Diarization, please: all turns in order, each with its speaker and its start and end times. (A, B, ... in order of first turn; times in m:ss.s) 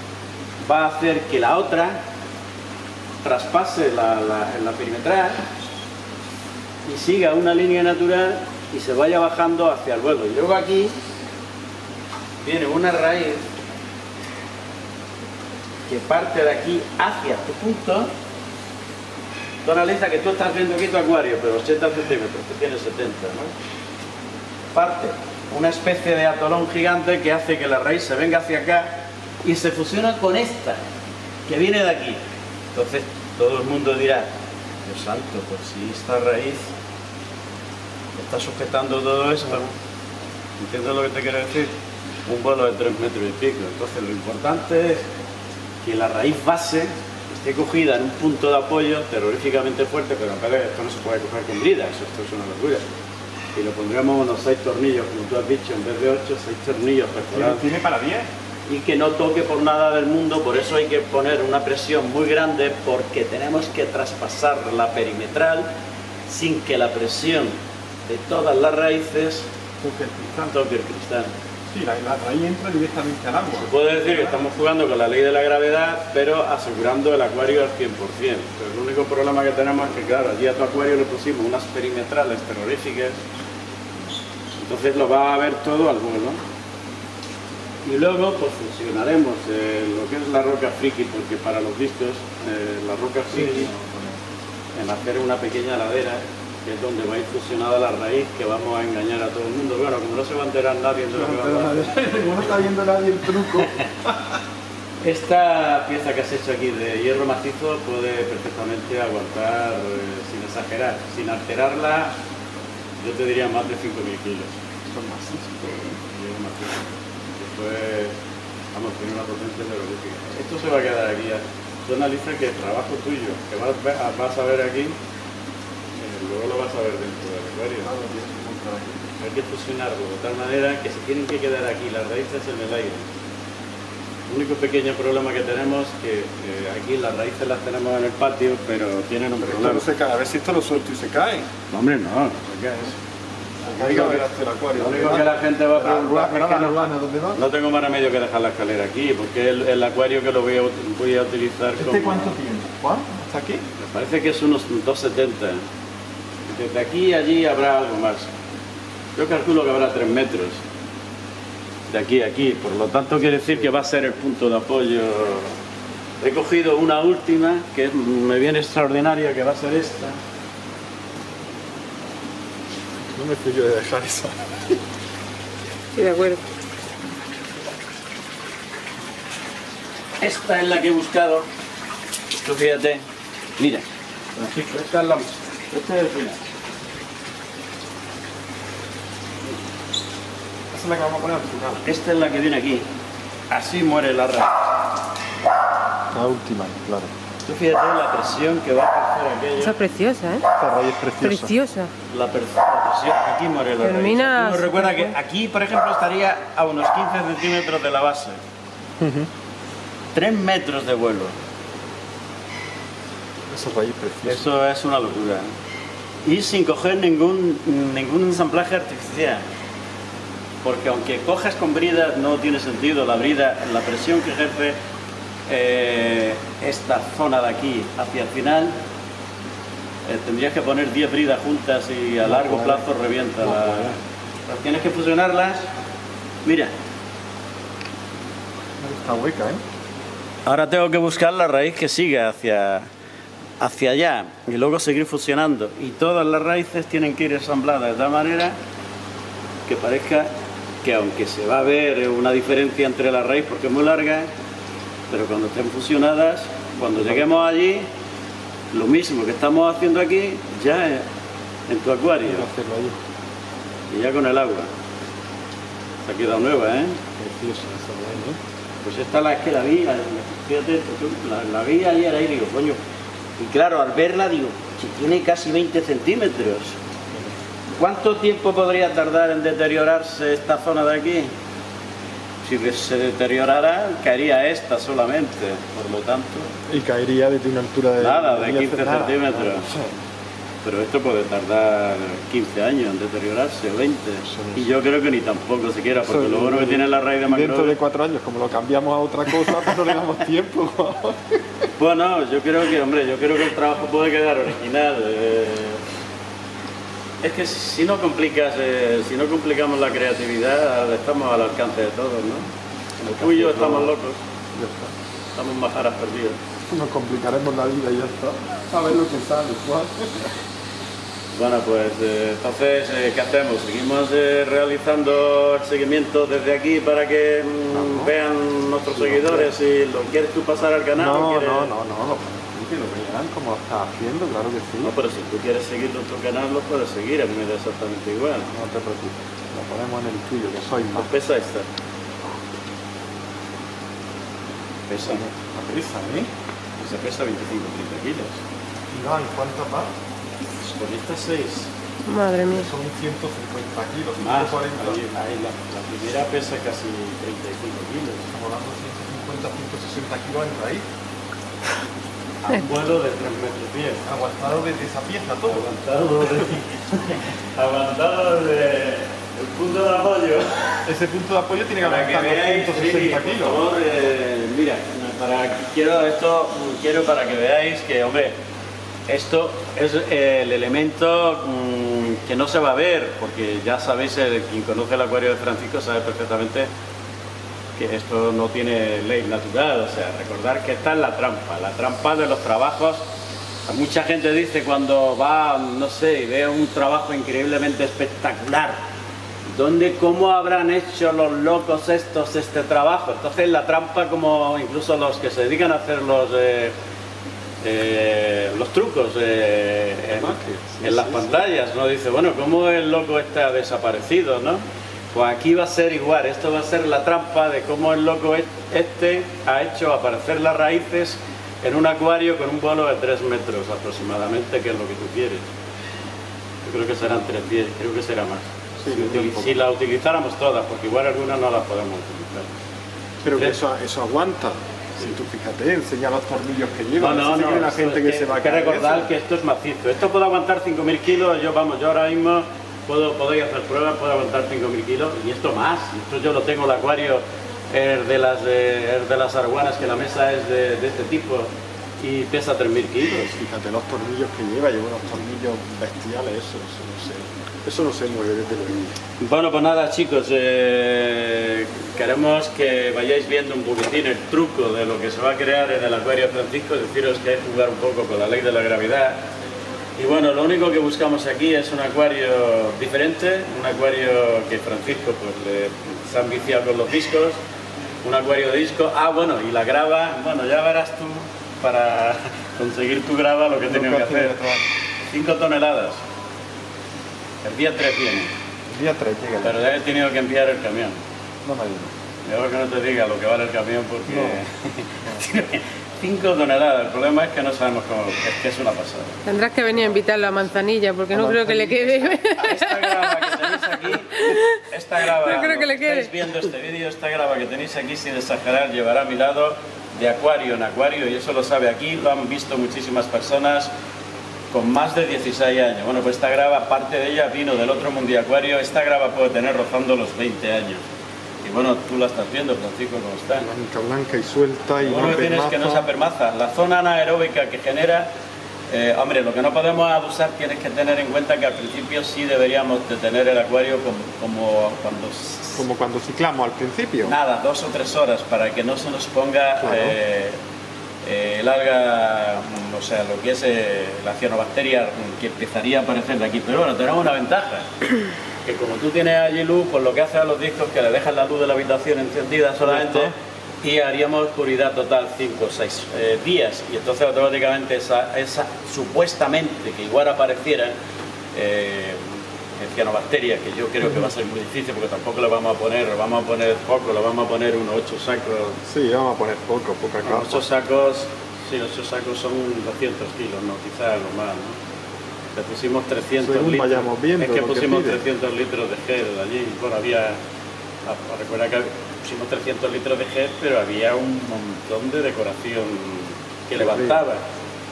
0:00.6-0:02.0 A
0:03.2-0:05.4 A
0:06.9-0:11.0 A
0:12.4-0:13.5 A
0:15.9-0:18.1 A
0:19.6-0:23.5 A
0:24.7-0:28.9 A
0:29.4-0:30.8 A
0:31.5-0:32.2 A
0:32.7-0:34.3 A
0:34.8-0:36.7 A
0:38.2-0:39.7 A
0:40.6-0:41.7 A
0:42.3-0:45.1 A
0:45.8-0:52.8 A
0:53.5-0:57.6 A
0:57.3-0:58.3 B
0:58.7-1:05.7 A
1:06.3-1:07.6 A
1:08.1-1:09.5 A
1:09.8-1:10.4 B
1:10.2-1:11.3 A
1:11.7-1:14.4 B
1:13.6-1:23.2 A
1:24.6-1:26.4 A
1:27.8-1:33.7 A
1:33.3-1:34.2 B
1:34.8-1:42.4 A
1:41.1-1:44.4 B
1:43.4-1:43.9 A
1:45.0-1:52.2 A
1:53.0-1:54.5 A
1:54.9-1:56.0 B
1:56.1-1:58.1 A
1:58.7-2:05.0 A
2:06.0-2:07.9 A
2:07.8-2:09.0 B
2:09.2-2:13.1 A
2:14.3-2:19.9 A
2:19.4-2:21.5 B
2:21.7-2:23.0 A
2:23.6-2:27.4 B
2:23.6-2:32.4 A
2:31.8-2:33.6 B
2:33.8-2:35.6 A
2:36.5-2:38.3 A
2:39.2-2:40.6 A
2:41.9-2:45.6 A
2:46.2-2:50.2 A
2:53.0-2:54.5 B
2:56.0-2:56.4 C
3:00.2-3:01.5 A
3:02.4-3:03.0 A
3:03.6-3:03.8 A
3:04.4-3:06.4 A
3:10.7-3:11.8 B
3:11.8-3:12.9 A
3:13.5-3:14.7 A
3:16.1-3:17.1 B
3:17.4-3:19.8 A
3:19.6-3:20.4 C
3:20.6-3:21.6 B
3:21.2-3:21.9 C
3:22.1-3:28.4 A
3:23.8-3:25.1 C
3:29.0-3:29.3 B
3:30.1-3:31.4 A
3:33.5-3:34.4 B
3:34.2-3:35.5 A
3:36.2-3:39.4 A
3:40.6-3:44.8 A
3:45.5-3:48.8 A
3:50.1-3:55.7 A
3:52.2-3:54.0 B
3:56.4-3:56.7 A
3:58.8-3:59.6 B
4:00.5-4:02.9 A
4:03.6-4:08.6 A
4:09.7-4:10.3 A
4:10.8-4:14.3 A
4:15.1-4:17.9 A
4:17.0-4:17.5 B
4:18.7-4:21.0 A
4:21.7-4:22.5 A
4:22.3-4:23.0 B
4:23.9-4:24.7 A
4:26.0-4:27.0 A
4:27.2-4:28.4 B
4:28.8-4:32.8 A
4:33.4-4:36.8 A
4:37.8-4:41.3 A
4:42.4-4:46.5 A
4:46.7-4:50.0 B
4:48.0-4:49.7 A
4:50.6-4:57.8 A
4:54.3-4:54.7 B
4:56.0-5:01.4 B
5:01.8-5:05.8 A
5:07.2-5:12.5 A
5:13.0-5:13.9 B
5:13.0-5:14.2 A
5:14.6-5:14.9 B
5:15.4-5:16.4 A
5:16.7-5:20.3 B
5:21.3-5:31.7 A
5:27.7-5:28.1 B
5:29.0-5:29.5 B
5:31.0-5:34.9 B
5:34.8-5:38.5 A
5:38.5-5:41.1 B
5:40.9-5:41.7 A
5:44.9-5:45.2 A
5:45.0-5:46.3 B
5:46.8-5:48.4 A
5:48.9-5:49.9 B
5:50.6-5:51.7 A
5:52.1-5:52.7 C
5:52.5-5:55.0 B
5:54.2-5:58.3 A
5:58.3-6:00.8 B
6:02.4-6:04.0 A
6:04.0-6:05.6 B
6:05.5-6:10.9 A
6:10.9-6:13.6 B
6:11.8-6:18.3 A
6:19.1-6:26.7 A
6:27.8-6:33.0 A
6:33.7-6:38.8 A
6:39.5-6:46.7 A
6:47.6-7:05.5 A
6:50.1-6:51.3 B
7:06.6-7:12.5 A
7:08.8-7:09.6 B
7:13.2-7:19.1 B
7:13.3-7:13.6 A
7:17.0-7:33.3 A
7:33.0-7:38.9 B
7:39.2-7:49.2 A
7:50.0-7:57.4 A
7:58.0-8:04.3 A
8:03.6-8:04.6 B
8:05.1-8:06.0 A
8:07.4-8:08.3 A
8:08.7-8:09.6 B
8:09.4-8:11.0 A
8:11.4-8:11.9 B
8:12.2-8:19.2 A
8:14.1-8:14.4 B
8:19.3-8:23.3 C
8:19.7-8:20.4 B
8:21.1-8:22.3 B
8:22.4-8:33.7 A
8:24.2-8:24.5 C
8:25.1-8:26.1 C
8:34.5-8:40.8 A
8:41.4-8:43.5 A
8:43.4-8:45.9 B
8:44.8-8:48.1 A
8:48.7-8:55.6 A
8:55.6-8:57.2 B
8:57.0-9:00.4 A
8:59.6-9:00.0 B
9:01.0-9:07.7 A
9:08.4-9:20.7 A
9:12.6-9:13.1 B
9:21.3-9:22.1 A
9:22.6-9:28.6 A
9:28.7-9:30.5 B
9:30.0-9:34.6 A
9:35.4-9:40.2 A
9:36.2-9:38.0 B
9:40.8-9:47.2 A
9:46.6-9:47.0 B